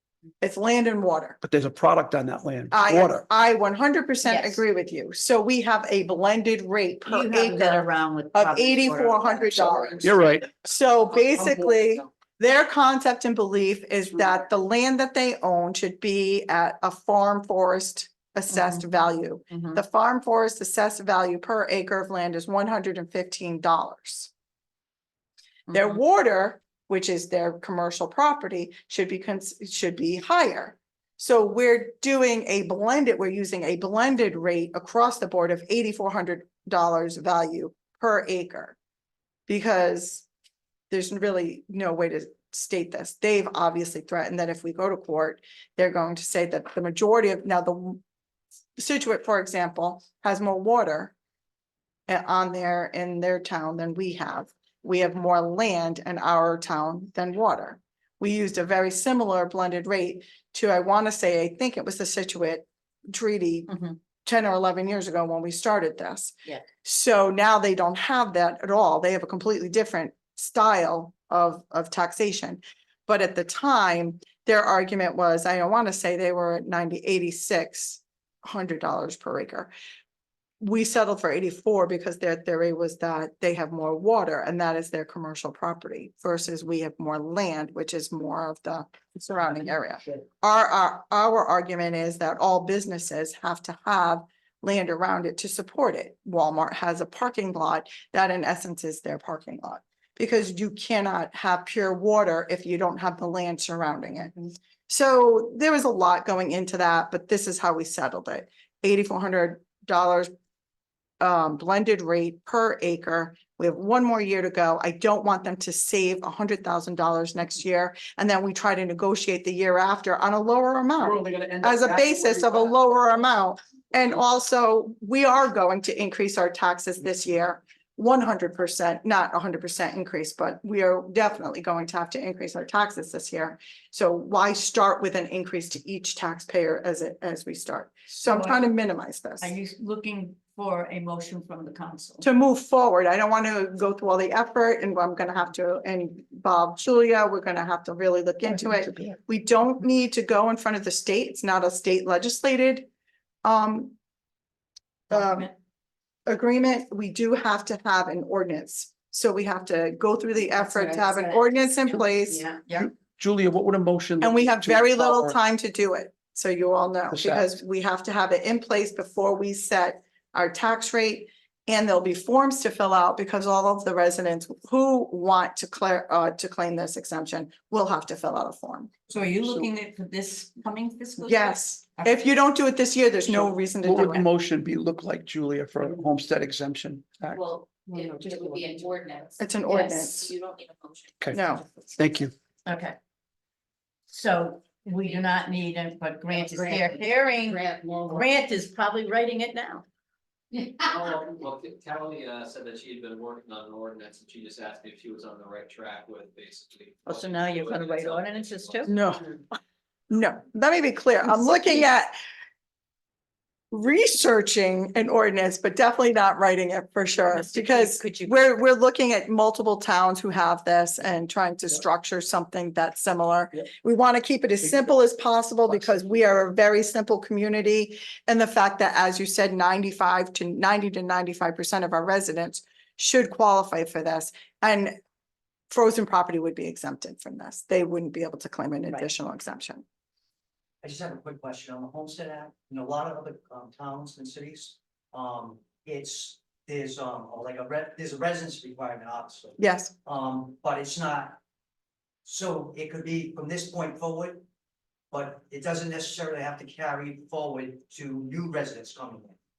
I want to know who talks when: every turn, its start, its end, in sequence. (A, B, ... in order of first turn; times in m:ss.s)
0:00.4-0:01.4 A
0:01.4-0:03.2 B
0:02.7-0:24.3 A
0:04.3-0:04.6 C
0:07.1-0:10.0 C
0:10.0-0:10.5 B
0:25.7-0:38.8 A
0:39.5-0:40.2 A
0:40.9-0:48.0 A
0:48.8-0:51.1 A
0:52.1-1:19.7 A
1:20.6-1:44.4 A
1:44.9-1:50.3 A
1:51.2-2:19.5 A
2:01.0-2:02.8 B
2:18.2-2:18.6 C
2:19.4-2:22.2 C
2:22.2-2:32.9 A
2:33.4-2:34.0 A
2:35.1-2:35.5 A
2:35.1-2:35.5 C
2:36.3-2:42.4 A
2:40.8-2:41.4 C
2:40.8-2:41.8 D
2:42.3-2:42.8 C
2:42.8-2:45.4 B
2:44.2-2:58.9 A
2:47.1-2:47.5 B
2:59.1-3:01.3 C
3:01.2-3:04.2 A
3:03.3-3:07.4 B
3:07.3-3:11.2 D
3:09.4-3:10.3 A
3:11.3-3:11.6 A
3:12.0-3:12.3 B
3:12.7-3:13.0 C
3:14.1-3:19.8 C
3:16.3-3:18.3 D
3:21.4-3:26.6 E
3:27.1-3:28.9 C
3:28.9-3:29.4 A
3:30.1-3:32.1 A
3:33.7-3:55.0 A
3:37.3-3:37.7 D
3:37.4-3:38.4 C
3:55.7-3:59.8 A
4:00.8-4:11.4 F
4:09.6-4:09.9 A
4:12.2-4:14.4 F
4:15.1-4:19.4 F